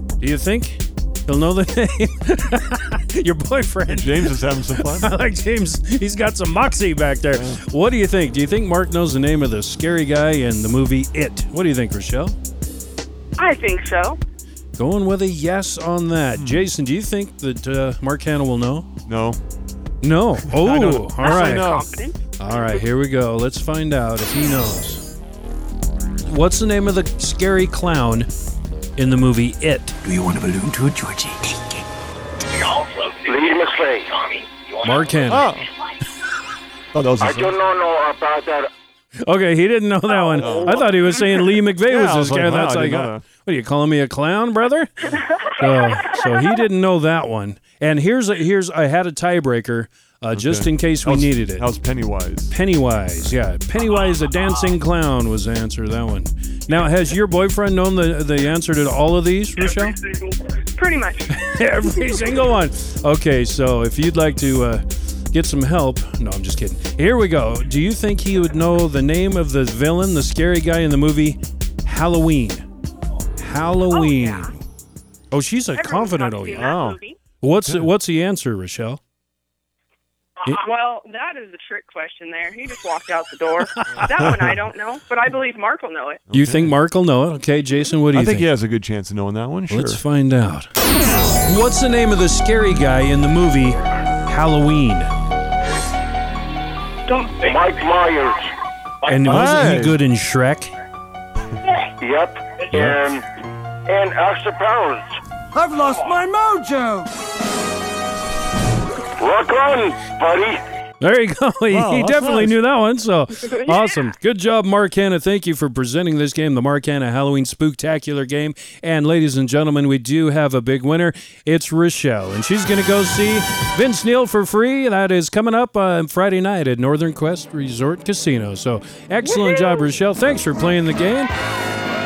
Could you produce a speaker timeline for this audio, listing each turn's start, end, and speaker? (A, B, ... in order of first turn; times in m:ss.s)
0:00.2-0:12.4 A
0:03.9-0:05.1 B
0:13.4-0:14.2 C
0:14.8-0:18.9 A
0:16.4-0:16.7 B
0:19.0-0:19.4 B
0:20.0-0:21.7 A
0:20.5-0:21.8 B
0:21.2-0:22.2 C
0:22.4-0:25.1 A
0:26.2-0:28.3 A
0:29.0-0:31.5 A
0:30.3-0:31.1 D
0:32.8-0:34.4 E
0:34.8-0:35.5 A
0:35.3-0:35.7 B
0:36.9-0:37.6 B
0:37.2-0:38.7 E
0:39.2-0:51.7 A
0:40.4-0:40.8 B
0:40.4-0:40.7 E
0:41.8-0:43.2 B
0:50.3-0:52.6 B
0:52.5-1:00.0 A
1:00.7-1:01.4 C
1:01.3-1:12.6 A
1:13.4-1:14.5 A
1:13.9-1:14.4 C
1:15.3-1:16.8 A
1:15.7-1:17.2 C
1:16.6-1:17.0 B
1:17.4-1:19.0 A
1:20.4-1:26.2 C
1:23.8-1:24.0 A
1:24.1-1:24.4 B
1:26.3-1:26.7 B
1:26.3-1:28.5 A
1:28.1-1:30.0 B
1:29.7-1:30.7 A
1:31.4-1:35.1 A
1:37.1-1:37.6 C
1:37.4-1:38.5 E
1:39.0-1:40.7 A
1:39.2-1:40.0 B
1:41.8-1:43.2 E
1:43.8-1:45.2 E
1:45.7-1:47.1 D
1:49.1-1:50.6 E
1:51.0-2:11.3 A
1:51.7-1:52.6 B
2:09.3-2:09.8 C